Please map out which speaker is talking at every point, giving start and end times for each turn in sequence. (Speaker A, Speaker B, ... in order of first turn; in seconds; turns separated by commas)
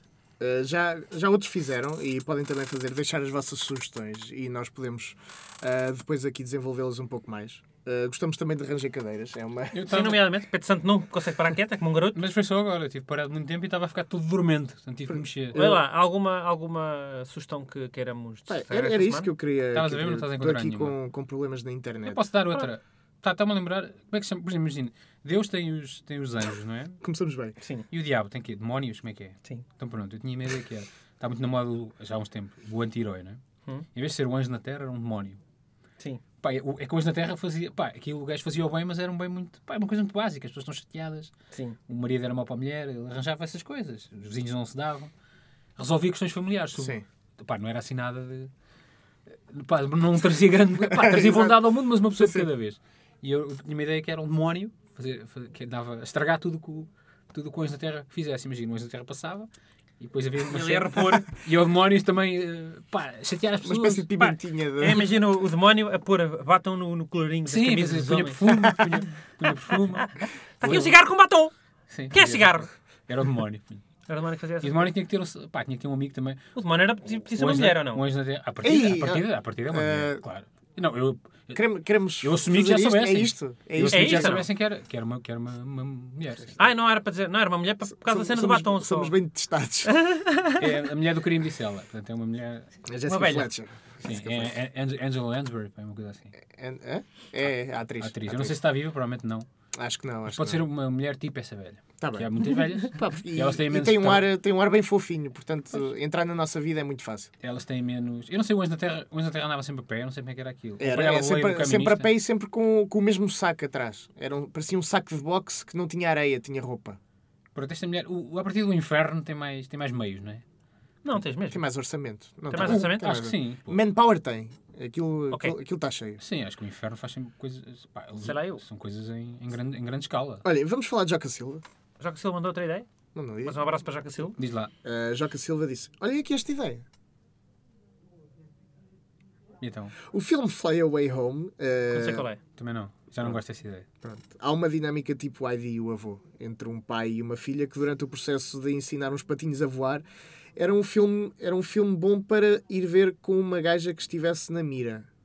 Speaker A: 0.4-9.8, Speaker B: 9.7-10.2, Speaker C: 9.9-12.2, Speaker B: 12.1-15.6, Speaker A: 15.1-15.8, Speaker C: 15.6-19.3, Speaker A: 18.5-22.2, Speaker B: 19.7-20.9, Speaker B: 22.1-27.0, Speaker A: 27.0-27.6, Speaker C: 27.6-27.9, Speaker B: 27.9-33.4, Speaker B: 34.0-35.4, Speaker B: 36.4-41.3, Speaker C: 41.5-41.8, Speaker B: 41.9-45.1, Speaker B: 45.8-48.5, Speaker A: 46.8-47.0, Speaker B: 49.3-59.5, Speaker A: 50.8-51.6, Speaker A: 52.2-52.5, Speaker B: 60.0-64.1, Speaker C: 60.5-61.3, Speaker A: 63.6-65.2, Speaker C: 64.2-69.0, Speaker B: 67.5-71.0, Speaker C: 69.5-71.5, Speaker B: 71.9-73.8, Speaker C: 72.1-72.7, Speaker C: 74.1-74.9, Speaker B: 74.6-76.5, Speaker C: 76.5-78.0, Speaker B: 77.4-81.6, Speaker A: 78.6-80.3, Speaker A: 81.5-84.4, Speaker B: 82.2-86.6, Speaker C: 83.9-84.5, Speaker C: 86.6-89.1, Speaker A: 88.0-90.0, Speaker C: 89.9-90.6, Speaker B: 90.6-92.7, Speaker A: 92.9-94.5, Speaker C: 93.1-93.5, Speaker B: 94.0-96.3, Speaker A: 96.4-98.6, Speaker B: 98.0-99.5, Speaker A: 99.8-100.6, Speaker B: 100.3-104.3, Speaker A: 102.0-107.3, Speaker B: 107.4-112.1, Speaker A: 110.8-117.0, Speaker B: 117.5-120.4, Speaker C: 121.0-121.6, Speaker A: 121.5-126.2, Speaker C: 122.5-123.1, Speaker B: 122.5-123.8, Speaker B: 126.2-130.4, Speaker C: 128.2-128.6, Speaker A: 130.4-131.6, Speaker C: 132.0-132.9, Speaker A: 133.2-133.6, Speaker C: 133.4-134.4, Speaker B: 134.4-134.7, Speaker A: 134.8-136.8, Speaker B: 139.6-140.0, Speaker A: 140.0-142.3, Speaker C: 141.9-142.4, Speaker B: 142.6-143.9, Speaker A: 144.0-150.1, Speaker A: 150.6-155.1